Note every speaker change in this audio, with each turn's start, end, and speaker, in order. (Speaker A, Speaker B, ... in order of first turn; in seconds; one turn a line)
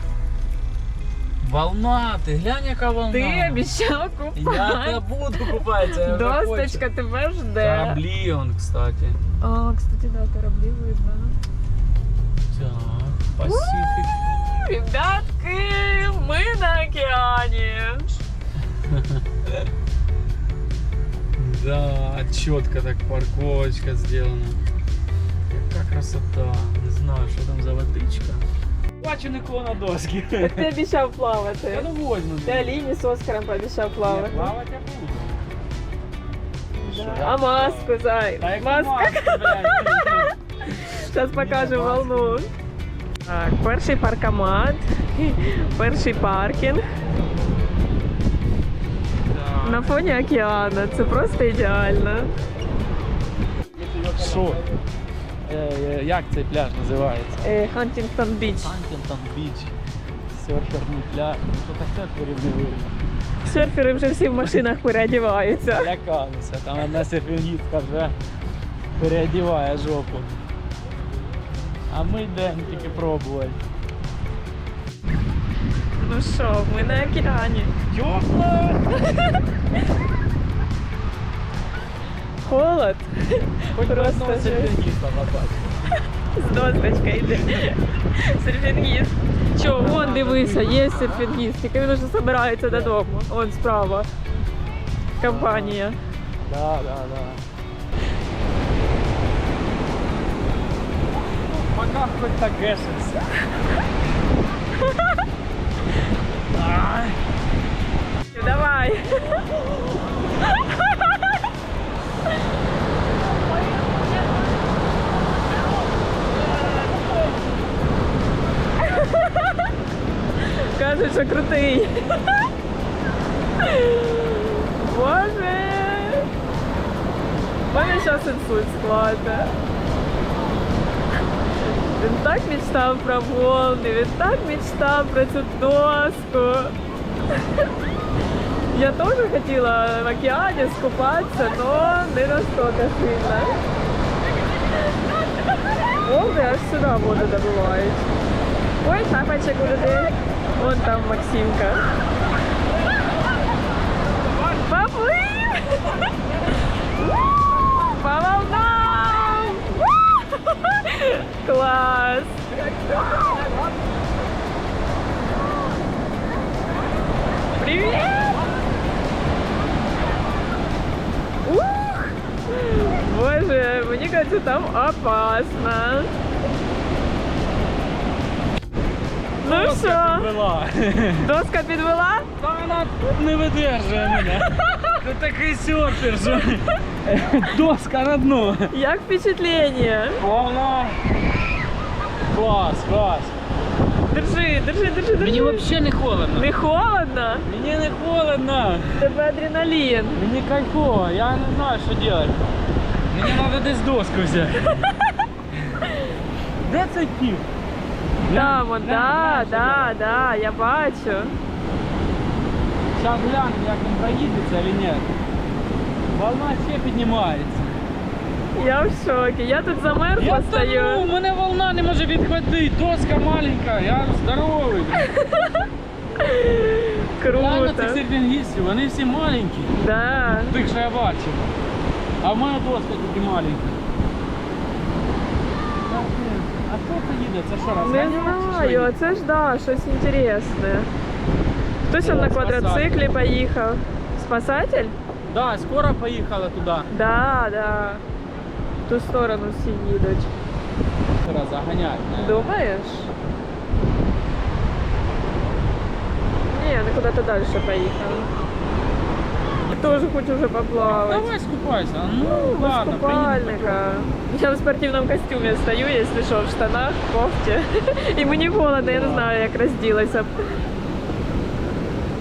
Speaker A: 1.4-3.7
Speaker B: 3.1-8.0
Speaker A: 4.3-6.8
Speaker A: 7.6-9.2
Speaker B: 9.4-11.4
Speaker A: 12.5-14.1
Speaker B: 13.4-13.7
Speaker B: 14.6-18.1
Speaker A: 18.8-19.2
Speaker A: 21.4-24.6
Speaker A: 25.5-28.4
Speaker A: 29.0-30.7
Speaker B: 30.4-31.9
Speaker A: 31.7-32.8
Speaker B: 32.4-34.5
Speaker A: 34.0-35.3
Speaker B: 36.8-42.5
Speaker A: 36.9-42.4
Speaker B: 43.2-46.9
Speaker A: 49.2-50.2
Speaker B: 49.6-52.3
Speaker A: 53.7-54.7
Speaker A: 55.4-57.6
Speaker B: 57.4-58.7
Speaker A: 58.5-59.7
Speaker A: 60.3-62.9
Speaker B: 63.4-65.9
Speaker A: 65.7-68.2
Speaker A: 69.0-70.3
Speaker A: 71.9-73.6
Speaker B: 76.0-77.7
Speaker A: 77.9-78.9
Speaker B: 82.4-84.7
Speaker A: 83.7-86.0
Speaker B: 86.3-94.1
Speaker A: 89.6-91.4
Speaker A: 92.7-92.9
Speaker B: 95.2-96.0
Speaker A: 95.2-95.8
Speaker A: 96.4-97.4
Speaker A: 101.3-103.4
Speaker A: 106.5-107.2
Speaker B: 108.3-109.4
Speaker B: 113.9-114.3
Speaker B: 116.3-117.4
Speaker B: 118.8-119.5
Speaker B: 120.4-122.3
Speaker B: 123.6-126.3
Speaker B: 127.7-129.6
Speaker B: 131.8-136.8
Speaker B: 137.3-137.7
Speaker B: 138.7-143.6
Speaker B: 146.0-148.1
Speaker B: 148.8-151.9
Speaker B: 154.6-156.0
Speaker B: 157.7-163.7
Speaker B: 167.5-168.4
Speaker B: 171.4-176.1
Speaker A: 179.4-181.3
Speaker B: 179.4-180.3
Speaker B: 181.2-182.3
Speaker A: 182.4-188.7
Speaker B: 188.7-190.2
Speaker A: 190.2-191.0
Speaker A: 192.3-193.3
Speaker B: 194.1-195.7
Speaker A: 195.2-196.5
Speaker B: 196.3-197.4
Speaker A: 197.4-199.2
Speaker B: 199.0-200.2
Speaker A: 200.1-202.6
Speaker A: 203.1-204.9
Speaker A: 205.5-205.8
Speaker B: 205.8-206.1
Speaker A: 206.6-207.4
Speaker A: 208.2-210.3
Speaker B: 208.3-211.4
Speaker A: 212.9-215.1
Speaker A: 216.1-217.8
Speaker B: 218.5-221.1
Speaker A: 220.2-225.1
Speaker B: 225.1-228.0
Speaker A: 227.3-231.5
Speaker B: 229.8-230.5
Speaker A: 232.2-233.8
Speaker A: 235.8-238.9
Speaker B: 237.8-240.9
Speaker B: 241.9-245.0
Speaker A: 242.0-243.1
Speaker A: 245.2-246.9
Speaker B: 246.9-248.0
Speaker B: 248.9-250.4
Speaker A: 251.2-252.4
Speaker B: 252.1-253.1
Speaker B: 256.5-258.3
Speaker A: 259.6-260.1
Speaker B: 259.7-261.3
Speaker A: 260.8-263.8
Speaker B: 262.2-270.4
Speaker A: 268.8-269.3